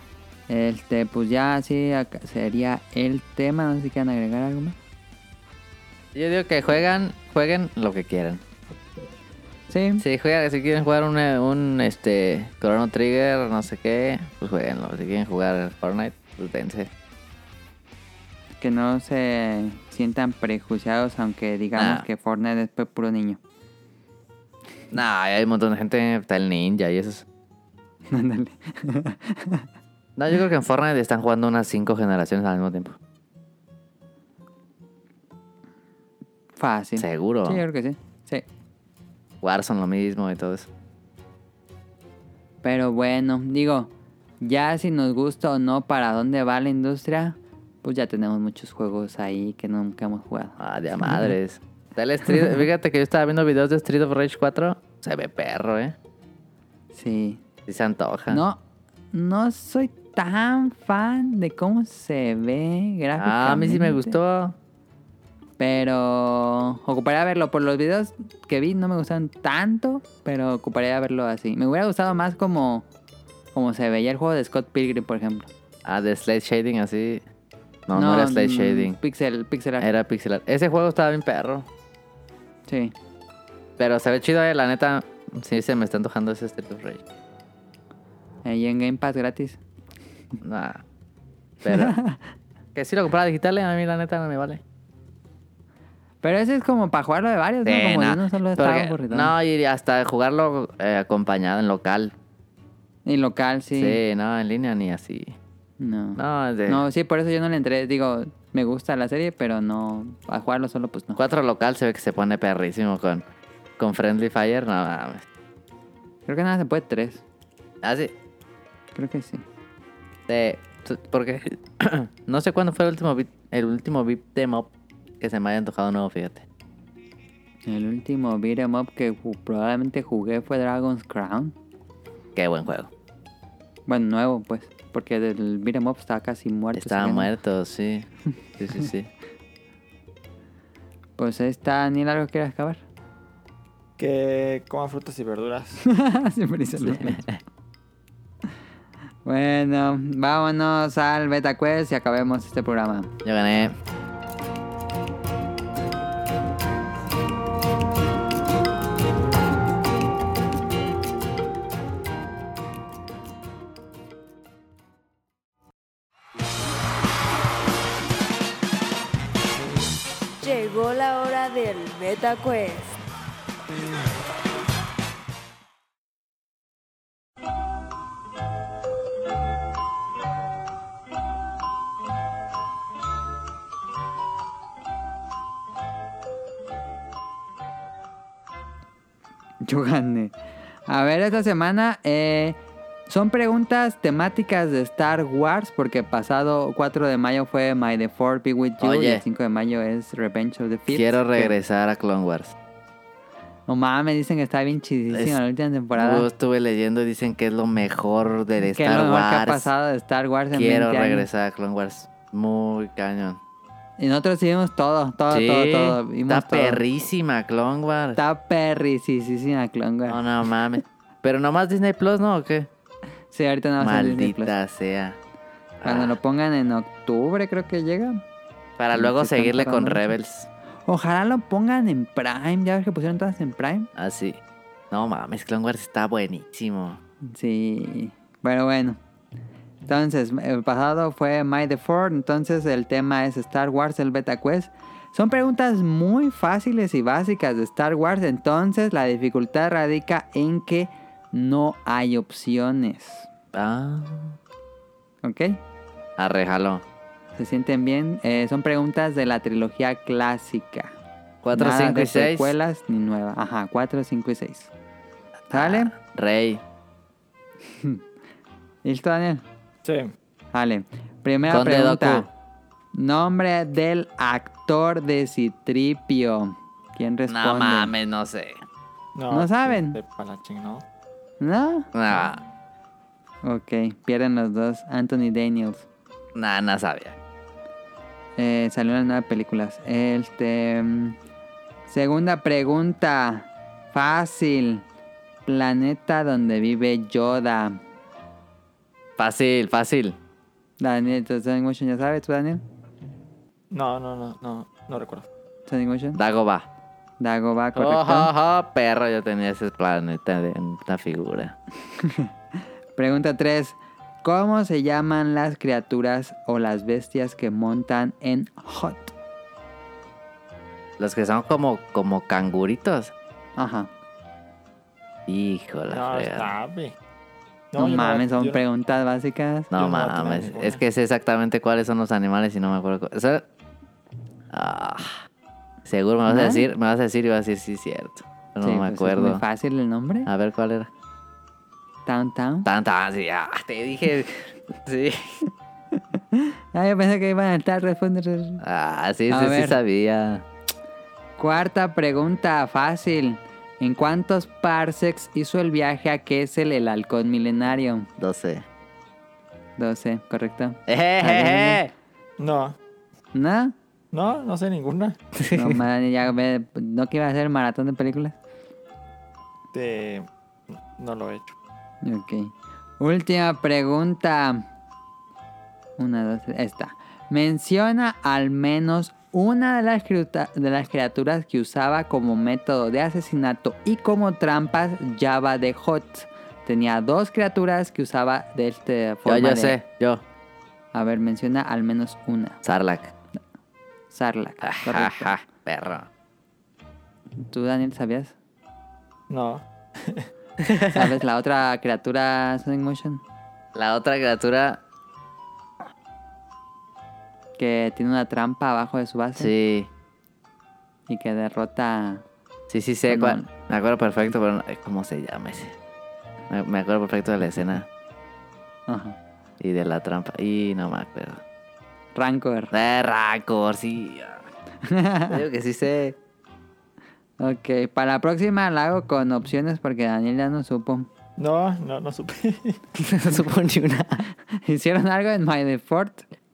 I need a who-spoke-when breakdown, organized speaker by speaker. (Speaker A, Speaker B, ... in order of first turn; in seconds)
Speaker A: 0.5-4.8, 9.7-10.0, 18.6-23.4, 28.1-29.7, 36.6-38.5, 42.6-51.4, 52.3-52.6, 56.9-57.4, 58.3-58.6, 59.1-64.2, 65.6-72.9, 73.5-75.5, 77.9-79.9, 82.7-83.0, 88.4-89.6, 91.7-92.2, 96.2-99.3, 103.0-104.0, 105.8-111.2, 116.3-117.2, 119.0-119.5, 127.7-131.6, 133.9-137.3, 141.2-142.8, 145.8-147.2, 149.2-153.1, 189.6-190.3, 190.9-201.6, 203.7-206.3, 208.7-211.3, 214.0-216.8, 218.2-220.2, 223.3-224.5, 225.8-228.2, 228.9-230.1, 230.8-233.9, 237.3-239.0, 239.9-253.3, 255.2-255.6, 257.4-260.9, 261.5-264.7, 265.5-265.9, 267.7-268.0, 268.8-269.4, 270.5-272.3, 272.9-277.9, 279.3-280.0, 281.4-281.9, 283.4-285.9, 288.4-291.2, 291.9-294.9, 295.5-297.8, 300.8-302.6, 305.7-306.2, 307.2-308.3, 312.0-312.3, 313.0-319.1, 323.6-323.9, 327.8-329.7, 336.3-336.7, 338.6-340.3, 342.1-342.7, 345.9-348.6, 349.3-349.8, 351.4-358.1, 359.8-361.9, 363.3-363.8, 365.5-368.4, 372.0-374.6, 376.0-389.8, 390.9-392.6, 394.1-395.3, 397.4-398.3, 400.9-403.2, 407.6-409.5, 411.1-412.2, 413.1-413.5, 418.9-419.2, 422.1-422.7, 424.8-425.4, 427.4-431.1, 434.4-436.3
Speaker B: 6.1-8.4, 10.0-16.9, 21.8-22.1, 24.9-27.2, 30.2-33.0, 37.0-37.6, 39.4-40.7, 50.6-56.0, 57.7-58.4, 63.2-64.5, 75.8-77.2, 77.9-79.0, 79.8-81.7, 83.8-87.0, 90.4-90.8, 91.6-92.0, 92.8-94.6, 97.7-102.1, 103.8-105.3, 106.2-106.8, 111.2-113.2, 113.8-115.2, 117.8-118.1, 120.3-126.4, 132.4-132.9, 136.8-138.1, 138.6-139.1, 146.8-147.4, 153.2-153.8, 198.8-199.2, 200.9-202.6, 205.1-205.4, 205.9-209.7, 210.5-213.4, 215.3-218.2, 220.1-222.7, 223.8-225.2, 225.8-226.2, 228.8-230.5, 234.0-234.4, 234.9-237.0, 253.5-254.4, 256.2-256.8, 261.4-262.5, 265.5-266.6, 271.5-272.3, 277.3-278.6, 281.9-282.4, 286.4-287.2, 299.2-300.2, 306.1-306.7, 307.8-311.6, 321.0-323.1, 325.3-326.6, 329.7-333.4, 334.5-335.2, 335.9-339.4, 340.3-340.9, 342.6-345.4, 348.6-350.5, 358.2-358.6, 360.9-361.9, 365.4-365.8, 389.3-390.2, 392.6-393.1, 394.6-396.1, 400.6-401.1, 403.8-404.8, 409.4-409.9, 412.7-415.8, 416.5-417.9, 419.6-421.4, 422.7-424.5, 425.3-426.2, 433.0-434.2
Speaker C: 144.0-145.8, 269.8-270.1, 279.1-280.8, 303.7-305.3, 325.9-326.9, 327.7-328.6, 329.8-330.8, 362.4-362.8, 364.1-365.2, 369.7-371.6, 399.3-400.3, 431.4-432.8
Speaker D: 170.4-173.0